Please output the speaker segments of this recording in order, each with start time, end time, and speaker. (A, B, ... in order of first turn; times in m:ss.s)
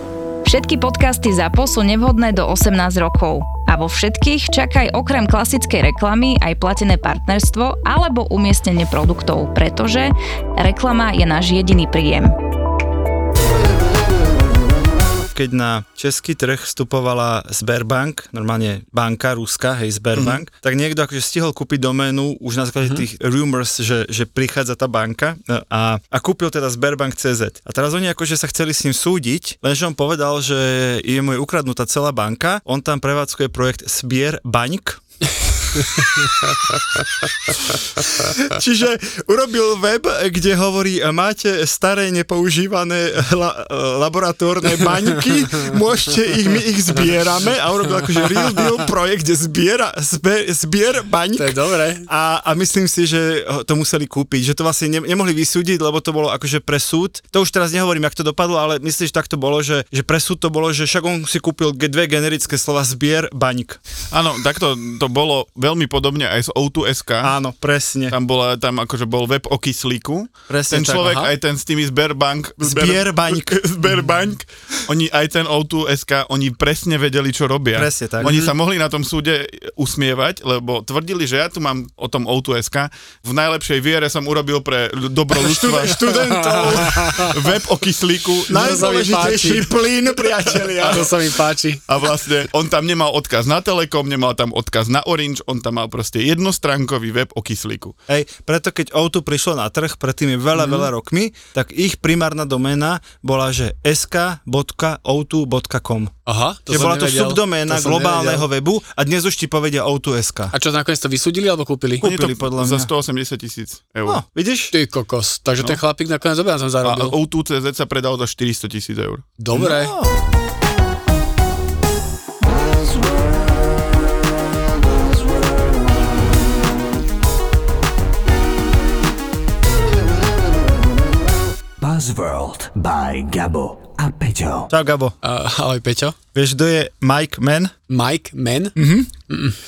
0:00.4-0:12.3 A
0:15.3-0:35.0 B
0:20.2-0:20.4 C
0:38.4-1:03.8 B
0:51.4-0:52.1 D
1:04.1-1:07.3 C
1:07.2-1:08.1 B
1:08.1-1:26.0 C
1:10.5-1:11.1 B
1:11.0-1:11.3 D
1:12.6-1:13.6 B
1:17.7-1:18.4 B
1:18.2-1:18.5 D
1:25.3-1:27.2 B
1:26.1-1:27.3 D
1:26.6-1:28.8 C
1:28.5-1:31.1 B
1:28.5-1:29.7 D
1:30.5-1:31.0 C
1:30.8-1:31.8 D
1:31.9-1:37.9 C
1:38.1-1:46.1 B
1:40.6-1:40.9 D
1:46.3-1:48.5 D
1:46.7-1:50.5 B
1:50.5-1:52.0 D
1:52.0-1:52.9 B
1:52.0-1:54.2 C
1:54.0-1:54.7 B
1:54.7-1:57.1 D
1:56.8-1:59.3 C
1:59.4-1:59.9 D
1:59.5-2:00.1 B
2:11.8-2:14.7 E
2:14.7-2:15.2 B
2:15.2-2:16.2 D
2:16.3-2:17.7 B
2:17.9-2:18.8 D
2:18.8-2:19.1 B
2:19.3-2:19.5 D